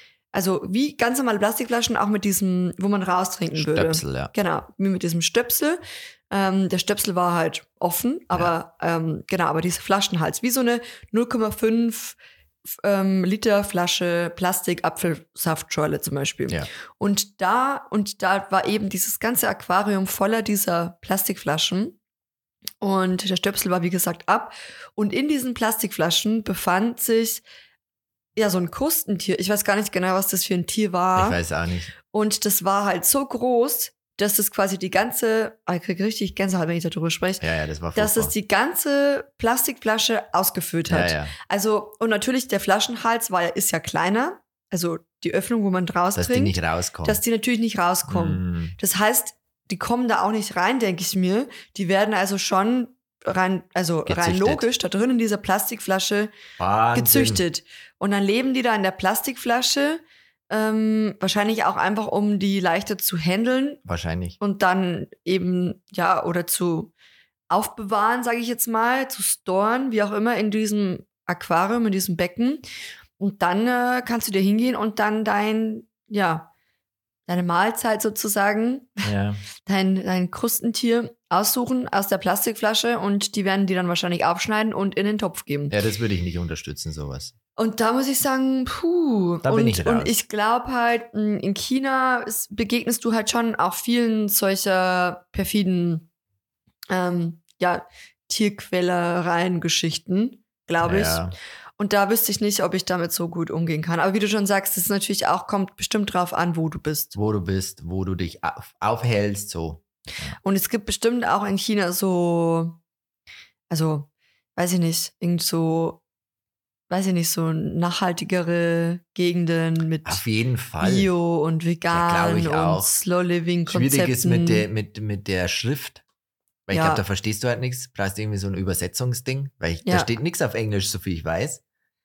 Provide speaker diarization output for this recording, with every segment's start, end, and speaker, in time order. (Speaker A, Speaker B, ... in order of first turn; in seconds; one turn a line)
Speaker A: 0.3-5.8
Speaker B: 3.5-4.3
Speaker A: 6.3-12.2
Speaker A: 12.8-22.0
Speaker A: 22.8-27.4
Speaker A: 28.4-31.4
Speaker B: 31.1-31.9
Speaker A: 32.1-37.4
Speaker B: 37.4-38.3
Speaker A: 37.9-56.3
Speaker B: 40.9-41.3
Speaker B: 46.1-47.2
Speaker B: 48.1-48.7
Speaker B: 54.0-54.6
Speaker B: 56.6-57.4
Speaker A: 56.9-63.8
Speaker B: 63.9-64.4
Speaker A: 64.4-66.9
Speaker A: 67.5-72.6
Speaker A: 73.2-76.5
Speaker A: 77.3-85.7
Speaker B: 79.0-79.4
Speaker B: 85.7-87.3
Speaker A: 87.6-96.0
Speaker B: 89.4-90.2
Speaker A: 96.9-101.2
Speaker B: 100.8-101.3
Speaker A: 101.8-107.1
Speaker B: 107.1-110.3
Speaker A: 110.4-112.8
Speaker A: 113.7-116.0
Speaker A: 116.9-120.2
Speaker B: 120.0-121.1
Speaker A: 120.8-124.7
Speaker B: 121.9-122.9
Speaker B: 123.7-126.0
Speaker B: 126.7-131.6
Speaker A: 126.7-127.0
Speaker A: 129.8-130.1